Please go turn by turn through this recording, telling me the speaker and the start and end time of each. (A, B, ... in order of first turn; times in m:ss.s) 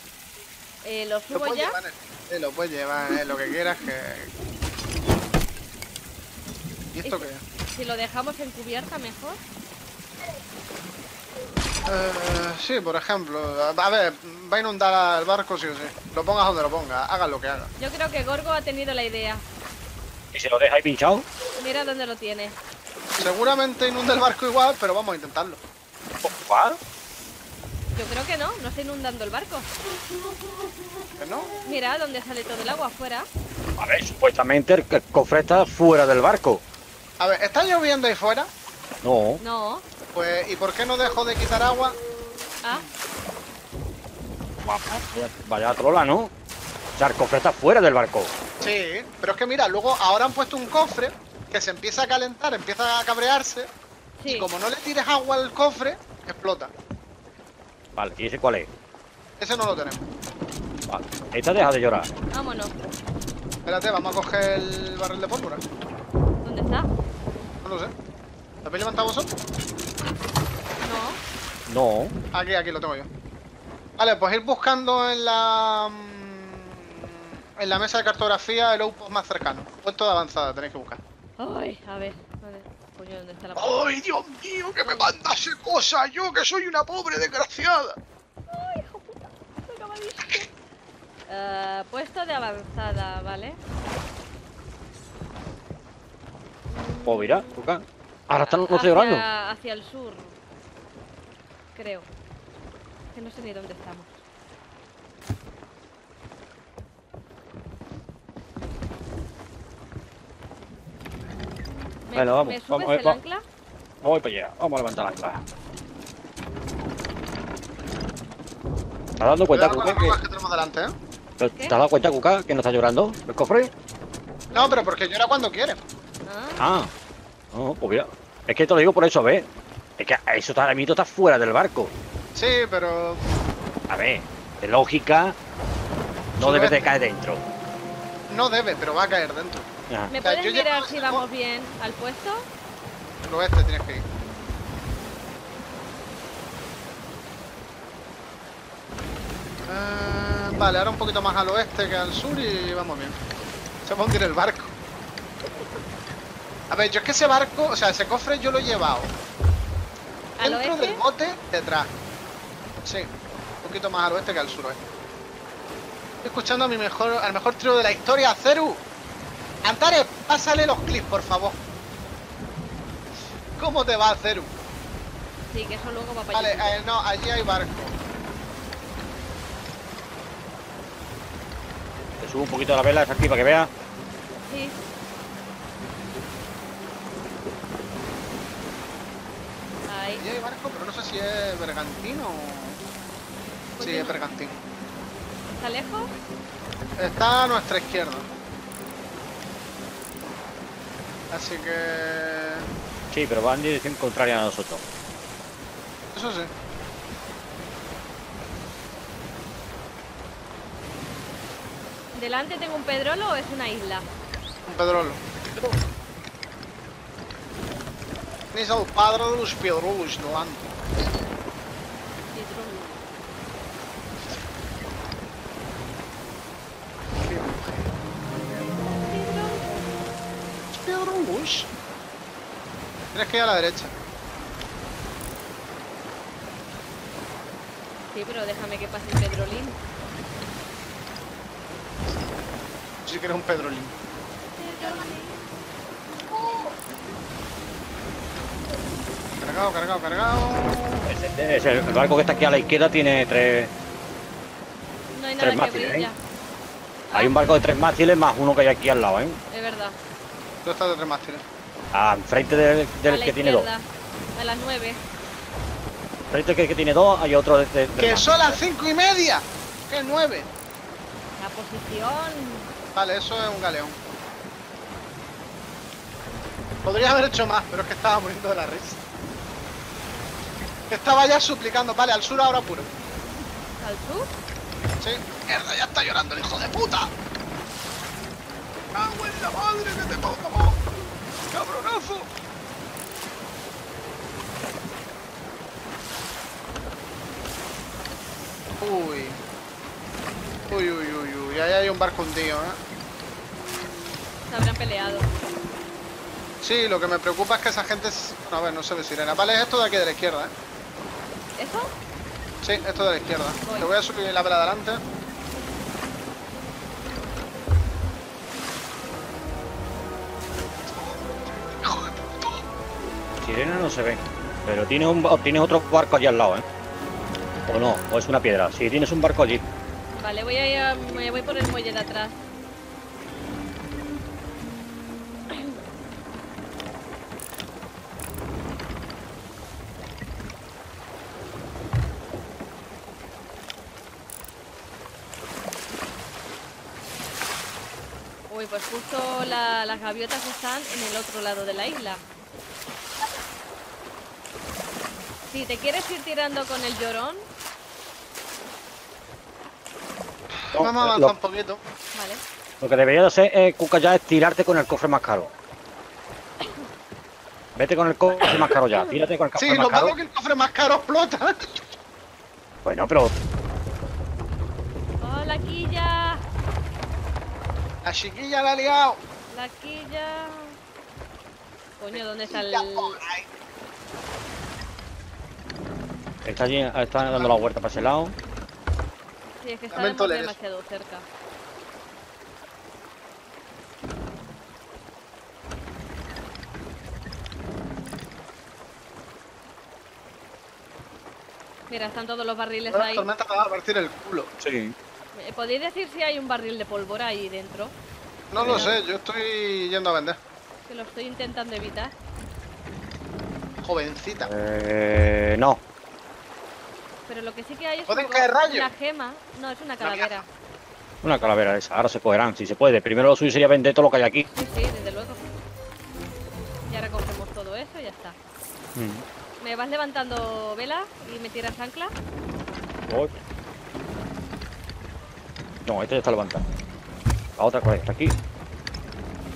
0:00.8-0:01.8 A
0:01.3-0:04.3 B
0:07.0-0:07.4 B
0:07.0-0:09.4 A
0:11.8-0:17.7 B
0:17.8-0:19.4 A
0:20.3-0:21.2 C
0:21.6-0:22.6 A
0:23.2-0:25.6 B
0:26.2-0:26.8 C
0:28.0-0:29.7 A
0:31.2-0:31.5 B
0:31.6-0:33.3 A
0:33.8-0:36.6 C
0:37.2-0:38.5 B
0:39.0-0:39.4 C
0:39.4-0:39.8 A
0:40.1-0:42.0 B
0:44.6-0:46.3 C
0:47.0-0:48.3 C
0:48.6-0:53.7 B
0:54.2-0:54.5 A
0:54.3-0:56.7 B
0:58.0-0:58.7 C
0:59.4-1:00.1 B
1:00.9-1:02.1 C
1:02.3-1:02.7 A
1:03.6-1:05.6 B
1:06.4-1:06.9 A
1:07.6-1:07.9 B
1:08.6-1:09.3 B
1:10.8-1:11.2 A
1:11.7-1:12.2 C
1:12.3-1:13.1 B
1:14.0-1:21.0 B
1:21.4-1:23.9 A
1:23.6-1:28.0 B
1:28.5-1:30.5 A
1:31.3-1:33.6 A
1:36.7-1:37.5 A
1:37.1-1:39.2 C
1:38.4-1:40.4 A
1:41.8-1:42.1 A
1:43.1-1:44.2 A
1:52.1-1:53.4 A
1:52.2-1:53.2 C
1:54.0-1:55.4 C
1:59.2-2:00.2 C
1:59.5-2:01.0 B
2:01.4-2:03.7 C
2:04.5-2:04.8 A
2:04.5-2:05.8 B
2:06.3-2:06.6 A
2:06.6-2:06.9 C
2:07.5-2:09.5 C
2:10.0-2:11.9 C
2:12.4-2:13.2 B
2:13.9-2:15.4 C
2:16.4-2:16.9 B
2:16.4-2:17.4 C
2:18.3-2:19.7 B
2:20.1-2:22.5 A
2:20.2-2:21.2 B
2:23.2-2:24.0 B
2:29.7-2:33.2 B
2:33.8-2:34.7 B
2:36.7-2:39.1 B
2:40.4-2:41.0 A
2:40.4-2:41.9 B
2:42.8-2:44.8 B
2:46.2-2:48.8 B
2:49.6-2:51.6 B
2:53.6-2:54.5 B
2:55.5-2:56.8 A
2:56.3-2:58.0 B
3:02.2-3:03.7 C
3:04.5-3:04.8 A
3:09.9-3:10.2 A
3:10.2-3:12.8 B
3:13.8-3:14.2 A
3:13.8-3:14.6 B
3:15.6-3:16.1 A
3:17.0-3:18.3 B
3:21.3-3:22.7 B
3:23.1-3:24.8 C
3:26.1-3:26.5 B
3:32.2-3:34.1 A
3:34.7-3:35.2 B
3:38.5-3:40.8 B
3:42.3-3:43.0 A
3:47.1-3:48.7 B
3:49.0-3:50.0 A
3:50.7-3:51.7 B
3:53.1-3:53.9 B
3:58.1-3:59.8 A
4:03.0-4:03.9 B
4:04.6-4:05.6 A
4:09.4-4:11.1 B
4:11.1-4:13.7 C
4:15.1-4:16.2 A
4:15.4-4:16.1 C
4:17.1-4:17.5 A
4:17.1-4:19.4 C
4:19.5-4:20.0 A
4:20.6-4:21.4 B
4:21.9-4:23.7 C
4:23.1-4:25.0 A
4:26.3-4:28.4 C
4:28.0-4:30.5 B
4:31.4-4:32.7 A
4:32.9-4:34.0 B
4:36.8-4:39.0 B
4:40.9-4:42.9 B
4:43.8-4:44.3 A
4:45.0-4:47.1 B
4:48.9-4:50.9 B
4:51.5-4:52.3 B
4:58.8-4:59.4 B
5:00.7-5:02.8 B
5:04.5-5:05.3 A
5:06.6-5:10.5 B
5:11.6-5:11.9 A
5:12.6-5:15.0 B
5:13.6-5:13.9 A
5:21.0-5:22.6 B
5:23.4-5:26.6 C
5:27.7-5:29.6 C
5:30.2-5:32.4 A
5:48.5-5:52.2 A
5:55.5-5:57.4 A
6:00.6-6:01.8 B
6:00.8-6:01.3 C
6:02.1-6:02.4 A
6:02.8-6:05.5 C
6:07.8-6:10.1 C
6:08.7-6:09.1 A
6:09.6-6:11.9 B
6:12.8-6:13.4 C
6:15.2-6:16.4 A
6:18.0-6:19.2 B
6:19.5-6:20.7 A
6:22.0-6:23.2 A
6:22.1-6:23.5 B
6:26.4-6:28.3 C
6:27.2-6:27.6 B
6:29.6-6:31.3 A
6:29.9-6:30.6 B
6:41.9-6:43.3 A
6:42.9-6:44.5 B
6:44.6-6:45.0 C
6:45.3-6:47.9 A
6:48.5-6:50.4 B
6:48.6-6:48.9 C
6:50.9-6:52.1 A
6:53.8-6:54.5 B
6:54.4-6:55.8 C
6:57.3-7:00.5 A
6:58.1-6:58.9 B
7:00.0-7:00.4 B
7:01.2-7:04.5 C
7:04.6-7:05.4 A
7:06.9-7:08.4 A
7:09.0-7:09.2 C
7:09.6-7:12.1 A
7:15.9-7:16.6 C
7:17.6-7:18.4 C